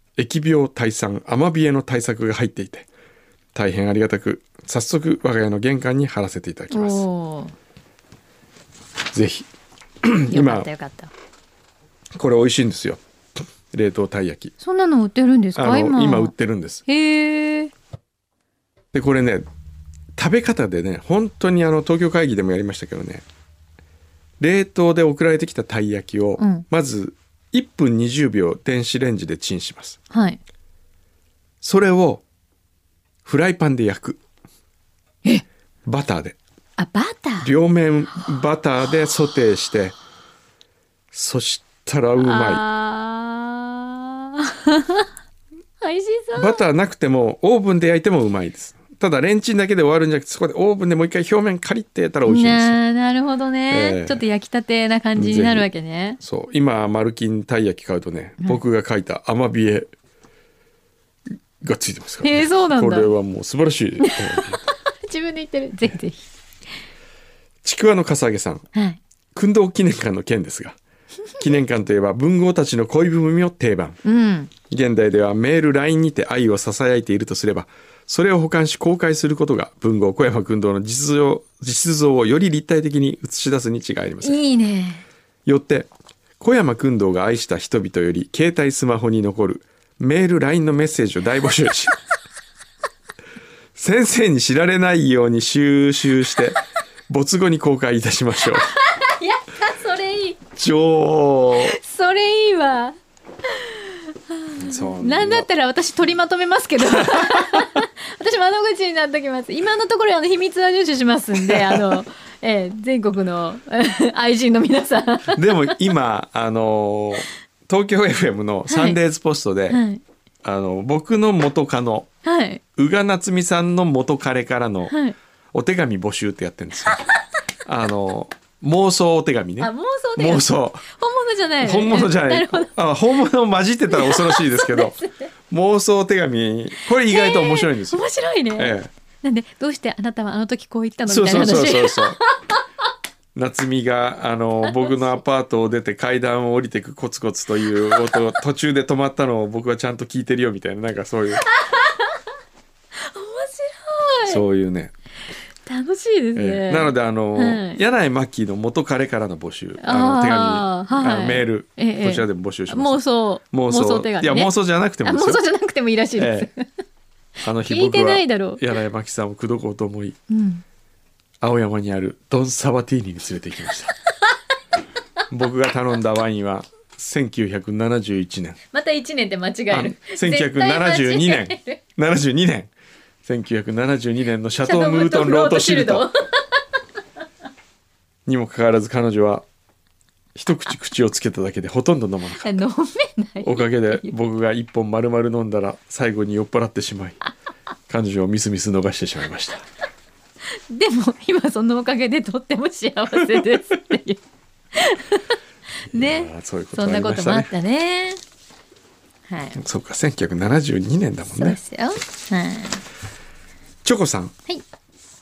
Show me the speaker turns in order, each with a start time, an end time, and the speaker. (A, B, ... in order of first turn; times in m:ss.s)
0:00.2-0:02.9 A
0:03.5-0:07.0 A
0:06.7-0:07.5 B
0:09.1-0:09.5 A
0:10.0-0:10.7 A
0:10.3-0:11.1 B
0:12.2-0:13.0 A
0:13.7-0:14.5 A
0:14.6-0:16.3 B
0:15.6-0:16.8 A
0:16.8-0:17.7 B
0:18.9-0:19.5 A
0:20.2-0:23.2 A
0:24.4-0:30.0 A
0:26.4-0:26.6 B
0:30.1-0:30.4 B
0:31.6-0:32.2 A
0:33.2-0:34.2 A
0:35.8-0:36.4 A
0:36.8-0:37.5 B
0:37.4-0:40.0 A
0:41.1-0:42.6 A
0:42.2-0:45.0 B
0:45.8-0:46.6 B
0:46.3-0:52.8 A
0:52.2-0:56.2 B
0:53.7-0:54.2 A
0:55.1-0:59.9 A
1:01.6-1:04.6 A
1:02.2-1:03.1 B
1:04.0-1:06.3 B
1:07.6-1:08.7 A
1:08.7-1:09.0 B
1:09.3-1:10.8 A
1:11.4-1:14.0 A
1:14.0-1:14.5 B
1:14.7-1:24.4 A
1:24.2-1:25.0 B
1:25.4-1:31.9 A
1:33.8-1:38.7 A
1:38.7-1:40.4 B
1:40.6-1:41.8 A
1:41.6-1:42.9 B
1:43.7-1:55.8 B
1:44.6-1:45.5 A
1:46.9-1:47.6 A
1:51.4-1:52.0 A
1:55.3-1:59.8 A
1:58.7-1:59.0 B
1:59.7-2:00.0 B
2:00.4-2:02.1 A
2:02.2-2:02.6 B
2:02.8-2:04.9 A
2:04.9-2:05.2 B
2:05.5-2:07.0 A
2:07.6-2:10.8 A
2:09.6-2:12.7 B
2:11.6-2:15.0 A
2:13.9-2:15.3 B
2:15.5-2:18.9 A
2:17.0-2:22.6 B
2:21.1-2:22.2 A
2:23.3-2:31.4 A
2:31.4-2:32.2 B
2:33.0-2:34.4 B
2:34.2-2:34.9 A
2:35.6-2:37.8 B
2:36.4-2:45.4 A
2:39.8-2:46.7 B
2:46.2-2:46.5 A
2:47.4-2:50.2 A
2:47.6-2:48.7 B
2:50.3-2:50.6 B
2:51.4-2:53.9 A
2:55.3-2:58.6 A
2:58.7-3:01.8 B
2:59.7-3:02.7 A
3:03.2-3:06.1 A
3:04.6-3:06.6 B
3:08.2-3:09.4 A
3:10.3-3:12.6 A
3:12.4-3:14.1 B
3:13.4-3:17.2 A
3:17.9-3:19.6 A
3:20.7-3:24.2 B
3:23.3-3:23.6 A
3:24.7-3:25.4 B
3:25.9-3:28.2 B
3:25.9-3:27.5 A
3:29.3-3:29.6 B
3:29.6-3:31.6 A
3:31.4-3:32.8 B
3:33.8-3:34.3 A